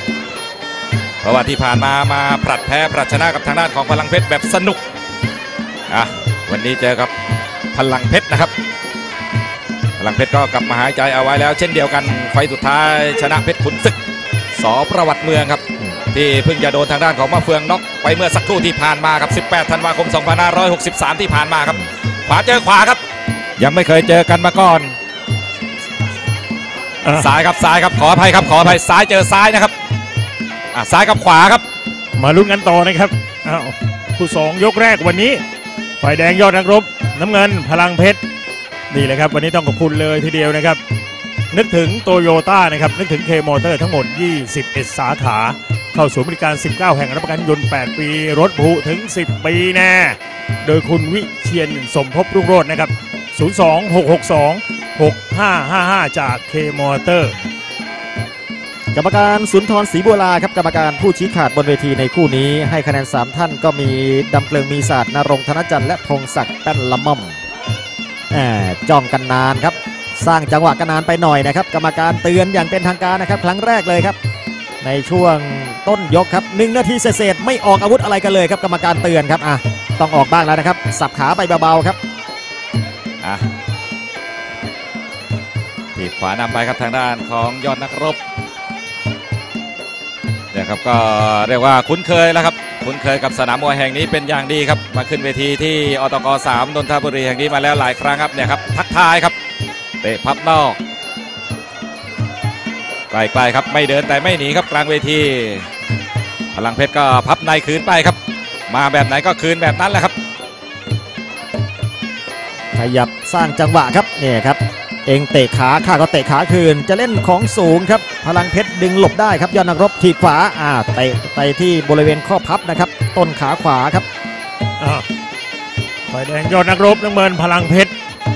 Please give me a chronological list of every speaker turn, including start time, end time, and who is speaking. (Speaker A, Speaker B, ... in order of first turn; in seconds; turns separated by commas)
Speaker A: 1.2-4.8, Speaker A: 5.9-7.1, Speaker A: 7.7-8.5, Speaker A: 10.0-14.0, Speaker A: 14.5-23.0, Speaker A: 23.6-24.9, Speaker B: 27.0-27.3, Speaker A: 27.1-29.7, Speaker A: 30.7-31.6, Speaker B: 32.2-35.4, Speaker B: 36.0-38.2, Speaker B: 38.9-40.8, Speaker B: 41.5-57.4, Speaker C: 58.9-67.4, Speaker C: 68.3-74.2, Speaker C: 74.8-82.0, Speaker A: 85.9-88.2, Speaker A: 90.5-99.3, Speaker A: 100.0-100.8, Speaker A: 103.1-105.7, Speaker A: 106.5-108.2, Speaker A: 108.7-110.1, Speaker C: 112.7-124.0, Speaker B: 124.8-125.1, Speaker B: 126.1-127.9